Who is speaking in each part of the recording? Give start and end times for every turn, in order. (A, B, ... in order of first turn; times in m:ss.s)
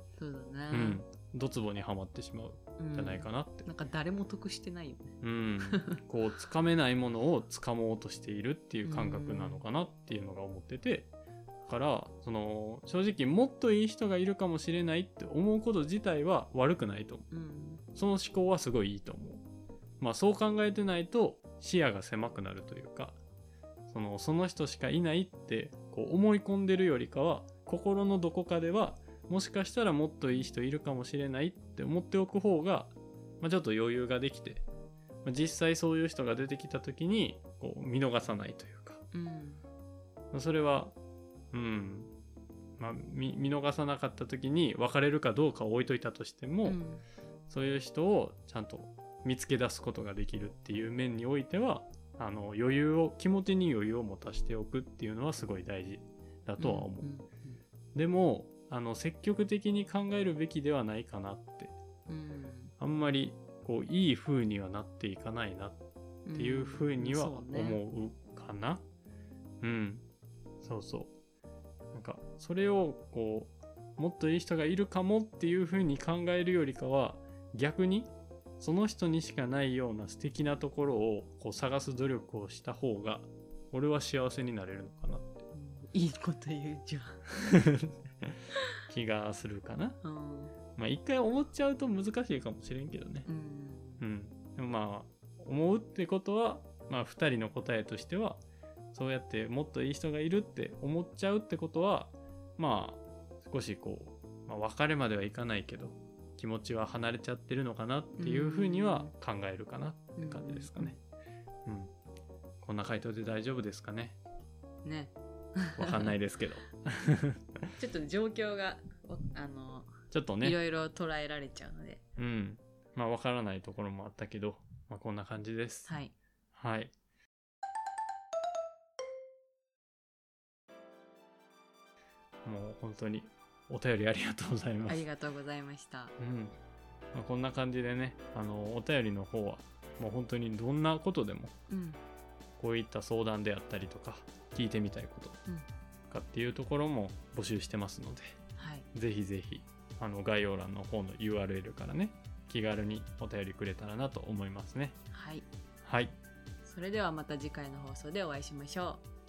0:00.2-0:01.0 A
0:00.7-0:03.7 B
0:02.8-0:06.0 A
0:05.2-0:11.1 B
0:08.8-0:09.6 A
0:11.6-0:17.2 B
0:17.3-0:17.8 A
0:17.9-0:19.4 B
0:20.0-0:23.2 B
0:23.9-0:34.6 B
0:35.2-0:39.0 B
0:39.1-0:39.6 A
0:40.3-0:40.9 B
0:41.5-0:42.1 B
0:42.8-0:46.8 B
0:46.6-0:47.0 A
0:47.5-0:57.1 B
0:56.6-0:57.6 A
0:57.9-1:01.7 B
1:02.1-1:02.7 A
1:02.8-1:05.8 B
1:06.2-1:07.8 A
1:06.3-1:08.8 B
1:09.6-1:10.0 B
1:10.6-1:11.1 B
1:11.9-1:25.3 B
1:25.5-1:27.4 A
1:27.4-1:28.3 B
1:28.9-1:30.0 B
1:30.0-1:30.5 A
1:30.8-1:33.3 B
1:33.2-1:34.0 A
1:34.0-1:38.4 B
1:38.9-1:51.0 B
1:48.1-1:49.1 A
1:50.2-1:51.0 A
1:51.6-1:51.9 B
1:52.6-1:54.2 B
1:54.8-1:56.1 A
1:55.8-1:57.6 B
1:57.8-2:02.0 A
2:00.1-2:00.6 B
2:02.2-2:05.9 B
2:05.8-2:06.1 A
2:06.5-2:06.9 B
2:12.4-2:15.0 B
2:14.9-2:16.1 A
2:16.2-2:16.6 B
2:17.1-2:21.5 B
2:21.7-2:22.0 A
2:22.6-2:25.4 B
2:26.1-2:28.4 B
2:28.6-2:28.9 A
2:28.9-2:34.9 B
2:35.1-2:35.4 A
2:35.8-2:36.1 B
2:36.6-2:39.0 A